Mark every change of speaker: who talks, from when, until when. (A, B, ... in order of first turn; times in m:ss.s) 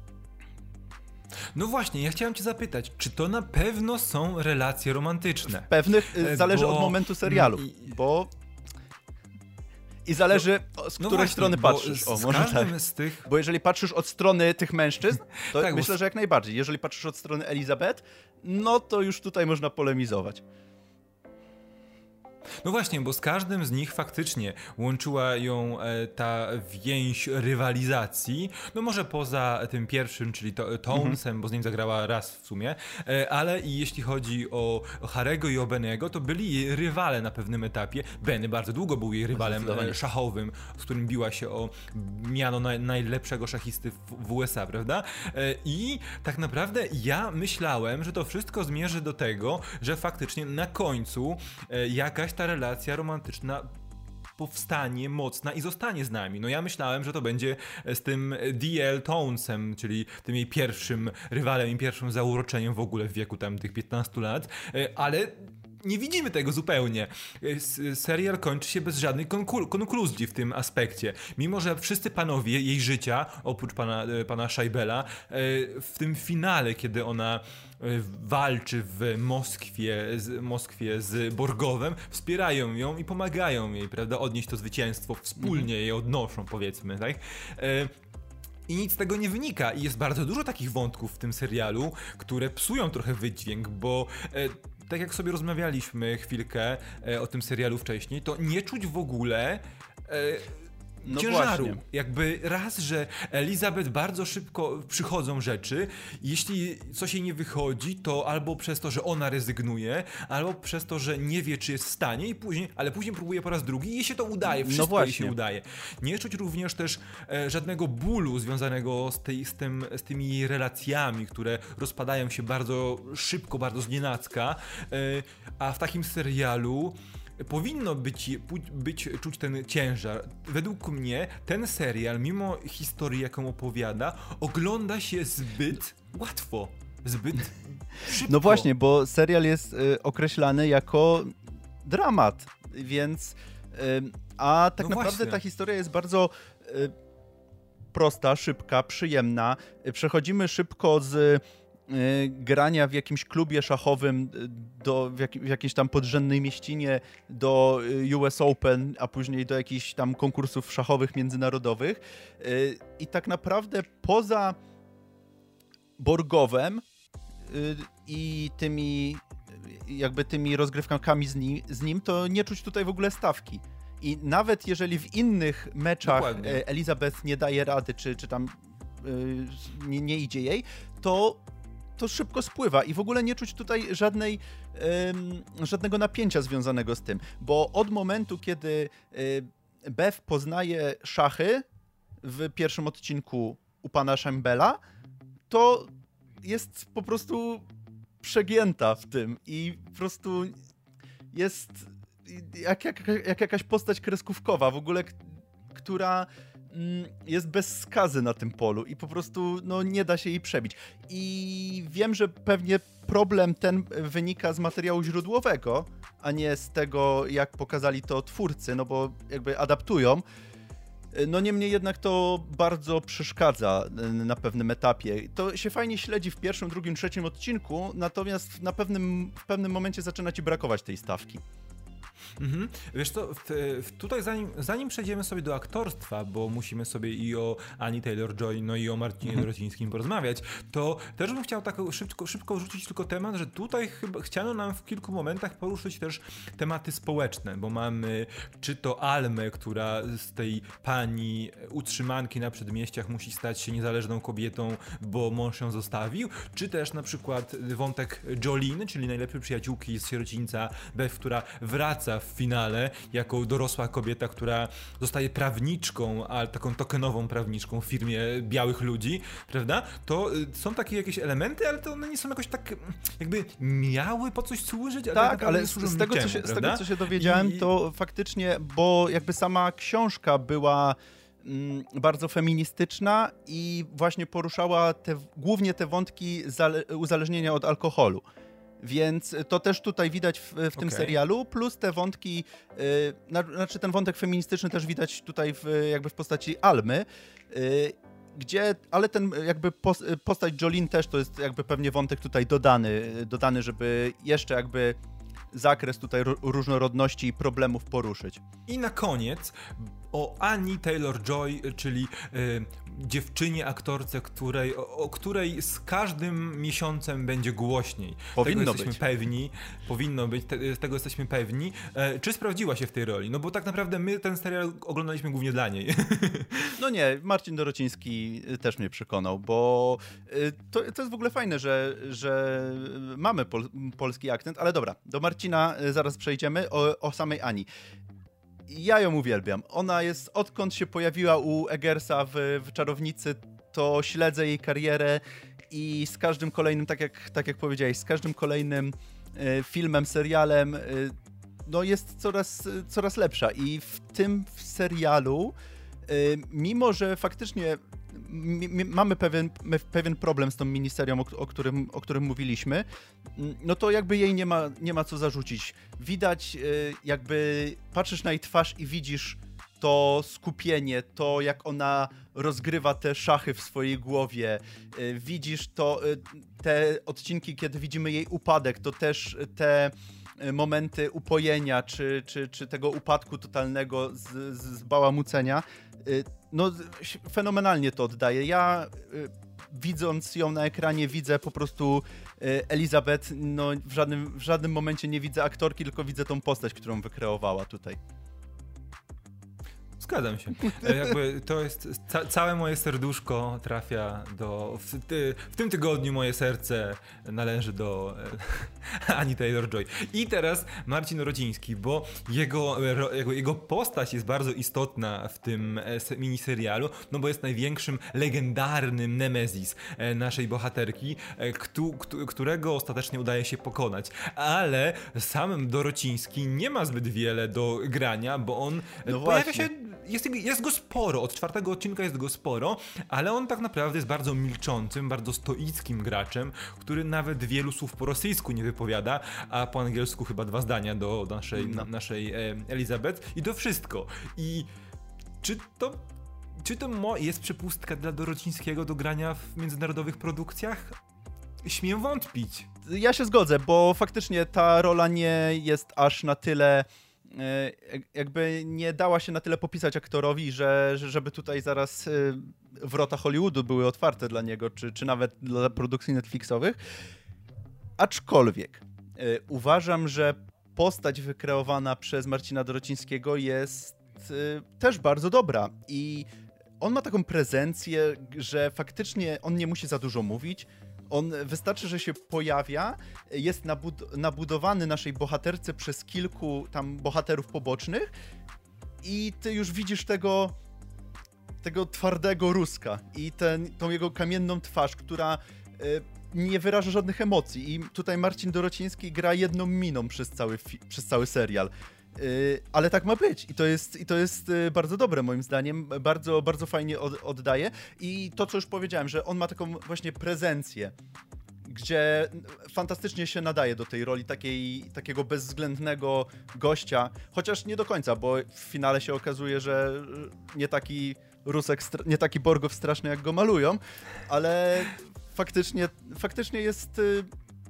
0:01.5-0:07.7 A
0:05.5-0:08.3 B
0:10.0-0:20.4 B
0:11.0-0:13.3 A
0:15.4-0:16.0 A
0:22.6-0:53.7 A
0:30.9-0:31.2 B
0:39.3-0:40.0 B
0:54.4-1:27.9 A
1:28.7-2:18.7 A
1:41.0-1:41.8 B
1:54.4-1:55.3 B
2:18.2-2:26.9 B
2:24.8-2:25.4 A
2:27.9-2:44.6 B
2:46.0-2:46.8 B
2:47.5-3:01.4 B
2:56.0-2:56.6 A
3:02.0-3:11.6 B
3:12.2-3:14.8 B
3:15.5-3:15.9 B
3:16.4-3:17.6 B
3:18.2-3:20.6 B
3:21.3-3:25.2 B
3:25.7-3:40.2 B
3:41.1-3:51.4 B
3:52.4-4:37.7 A
4:35.1-4:48.2 B
4:48.8-5:05.0 B
4:50.8-4:51.2 A
5:05.5-5:08.4 B
5:08.6-5:26.7 A
5:18.4-5:19.0 B
5:26.8-5:37.7 B
5:38.7-5:51.1 B
5:51.6-5:55.5 B
5:56.1-6:38.0 B
6:40.0-7:24.7 A
7:09.0-7:09.7 B
7:21.5-7:21.9 B
7:25.4-7:26.0 A
7:26.6-7:31.0 A
7:31.6-7:32.7 A
7:32.8-7:46.8 B
7:48.0-7:56.3 B
7:56.8-8:08.1 B
8:09.0-8:10.5 B
8:11.6-8:30.9 B
8:31.6-8:47.3 B